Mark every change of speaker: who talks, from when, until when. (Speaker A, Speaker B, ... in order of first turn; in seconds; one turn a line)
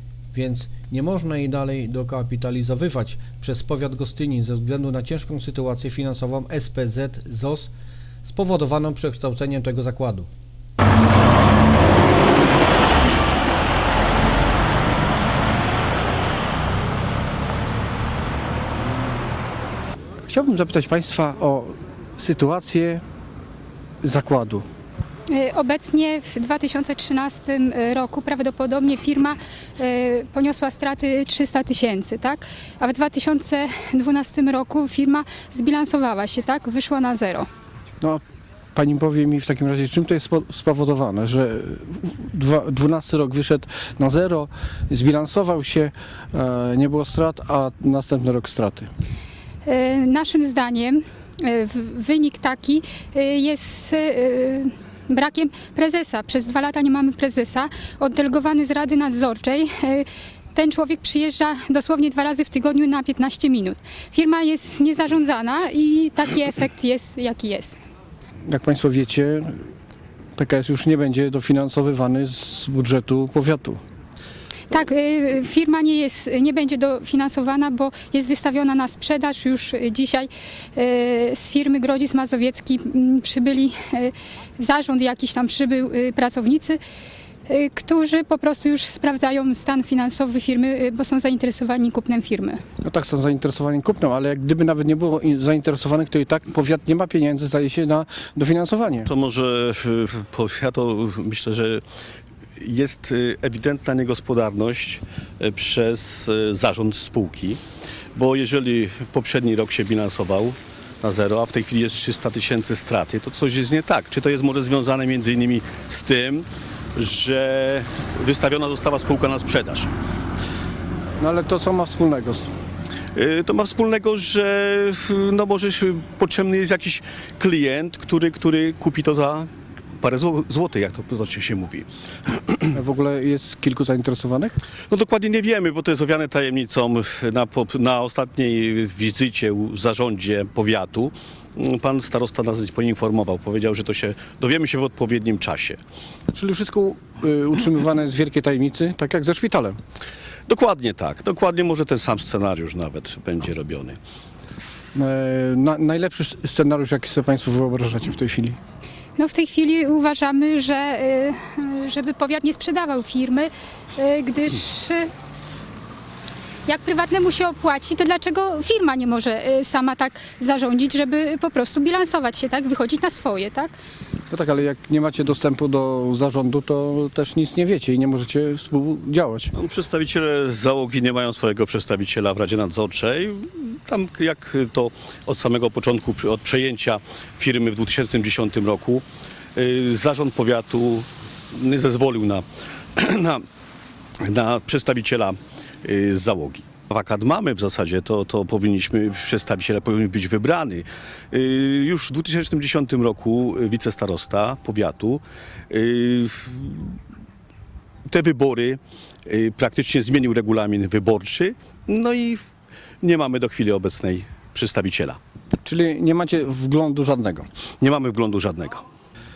Speaker A: 0.3-7.7
Speaker A: 8.2-10.3
Speaker B: 20.2-23.0
Speaker B: 24.0-24.7
Speaker C: 25.3-37.5
Speaker B: 38.7-48.9
Speaker C: 49.6-67.8
Speaker B: 68.5-69.5
Speaker B: 70.3-73.8
Speaker C: 74.7-86.8
Speaker C: 87.5-92.6
Speaker B: 92.8-99.1
Speaker D: 99.0-101.8
Speaker D: 102.6-107.6
Speaker D: 108.1-119.9
Speaker B: 121.2-122.5
Speaker D: 123.1-132.7
Speaker B: 132.7-134.6
Speaker D: 134.9-145.8
Speaker B: 146.3-149.8
Speaker D: 150.5-154.0
Speaker B: 154.9-158.6
Speaker C: 159.2-165.1
Speaker C: 166.7-173.7
Speaker B: 174.3-179.5
Speaker D: 179.5-189.0
Speaker D: 189.6-192.4
Speaker D: 192.9-193.4
Speaker D: 194.2-207.0
Speaker D: 208.1-212.4
Speaker D: 213.0-215.2
Speaker B: 215.6-217.4
Speaker D: 217.8-218.8